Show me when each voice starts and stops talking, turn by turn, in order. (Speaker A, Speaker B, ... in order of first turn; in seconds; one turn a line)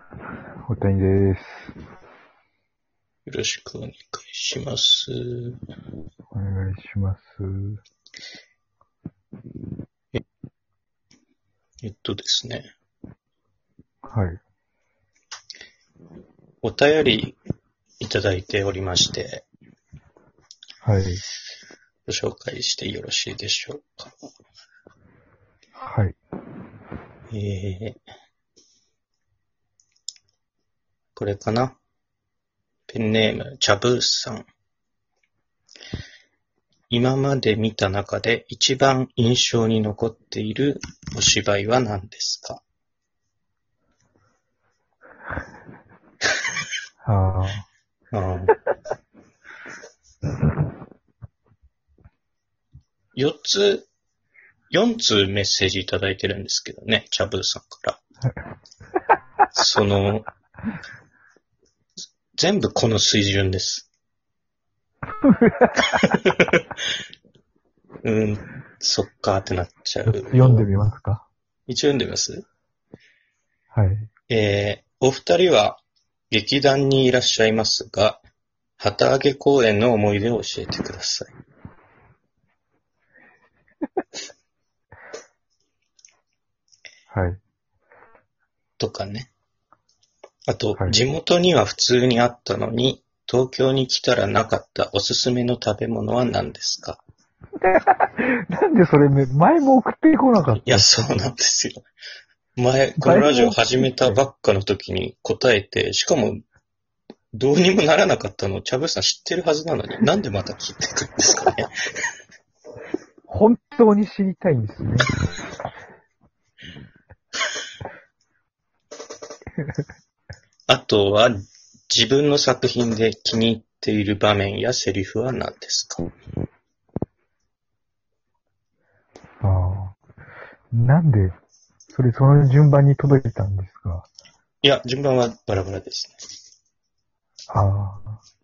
Speaker A: 0.7-1.7
Speaker B: 3.2-5.6
Speaker A: 6.3-7.8
Speaker B: 11.8-12.7
Speaker A: 14.1-14.4
Speaker B: 16.6-17.4
Speaker B: 18.0-19.4
Speaker A: 20.8-21.2
Speaker B: 22.1-24.1
Speaker A: 25.8-26.2
Speaker B: 27.3-28.0
Speaker B: 31.1-31.8
Speaker B: 32.9-34.5
Speaker B: 36.9-42.6
Speaker A: 47.0-47.6
Speaker B: 48.1-48.5
Speaker B: 53.1-53.9
Speaker B: 54.7-58.0
Speaker B: 59.5-60.3
Speaker B: 62.4-63.9
Speaker A: 65.2-66.1
Speaker B: 65.9-66.7
Speaker B: 68.0-70.7
Speaker A: 70.1-71.2
Speaker B: 71.7-72.4
Speaker A: 73.7-74.1
Speaker B: 74.3-78.2
Speaker B: 78.8-81.3
Speaker A: 87.1-87.4
Speaker B: 88.8-89.3
Speaker B: 90.5-97.0
Speaker A: 97.6-100.8
Speaker B: 100.4-101.8
Speaker B: 102.5-106.4
Speaker A: 103.0-104.2
Speaker B: 107.3-111.7
Speaker A: 113.3-115.1
Speaker B: 120.7-121.4
Speaker B: 121.9-126.1
Speaker A: 129.4-130.0
Speaker A: 130.7-131.4
Speaker A: 131.9-134.1
Speaker B: 134.6-136.2
Speaker A: 137.5-138.2